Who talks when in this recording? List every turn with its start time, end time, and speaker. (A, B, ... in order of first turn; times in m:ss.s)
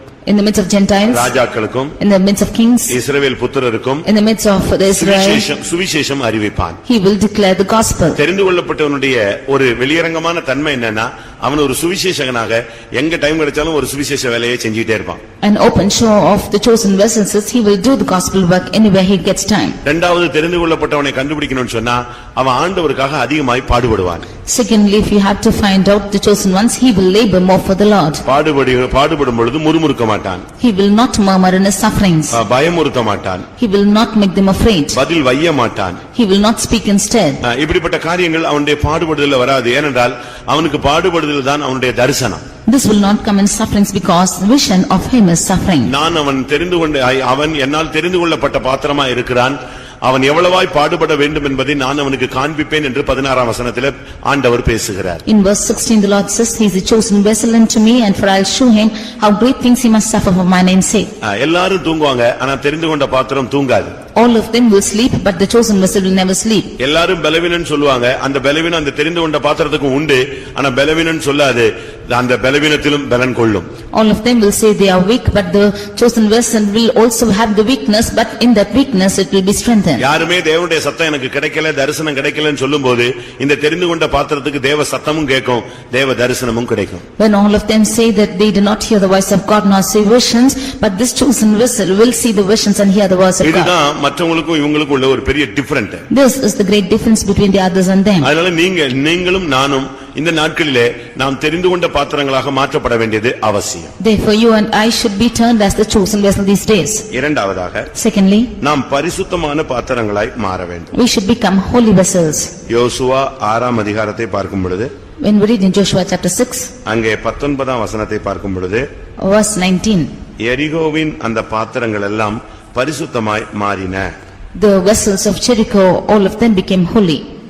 0:00.3-0:01.3 A
0:01.1-0:02.0 B
0:02.0-0:03.0 A
0:02.9-0:04.1 B
0:04.1-0:05.5 A
0:05.0-0:06.8 B
0:06.9-0:08.2 A
0:08.2-0:15.2 B
0:15.4-0:19.8 A
0:19.8-0:24.3 B
0:24.5-0:28.2 A
0:28.2-0:30.4 B
0:30.6-0:32.4 A
0:32.3-0:33.5 B
0:33.6-0:35.0 A
0:34.9-0:36.0 B
0:36.1-0:37.4 A
0:37.4-0:42.4 B
0:42.7-0:45.9 A
0:45.8-0:55.2 B
0:55.3-1:01.1 A
1:01.2-1:03.9 B
1:04.2-1:06.7 A
1:06.8-1:13.7 B
1:13.9-1:20.1 A
1:20.0-1:27.0 B
1:27.2-1:33.7 A
1:33.4-1:36.0 B
1:36.1-1:38.3 A
1:38.2-1:43.9 B
1:44.0-1:47.0 A
1:47.1-1:47.9 B
1:48.0-1:48.5 A
1:48.6-1:50.9 B
1:50.9-1:52.5 A
1:52.7-1:54.9 B
1:55.2-1:56.7 A
1:56.9-1:58.8 B
1:59.2-2:00.1 A
2:00.4-2:04.1 B
2:04.6-2:07.2 A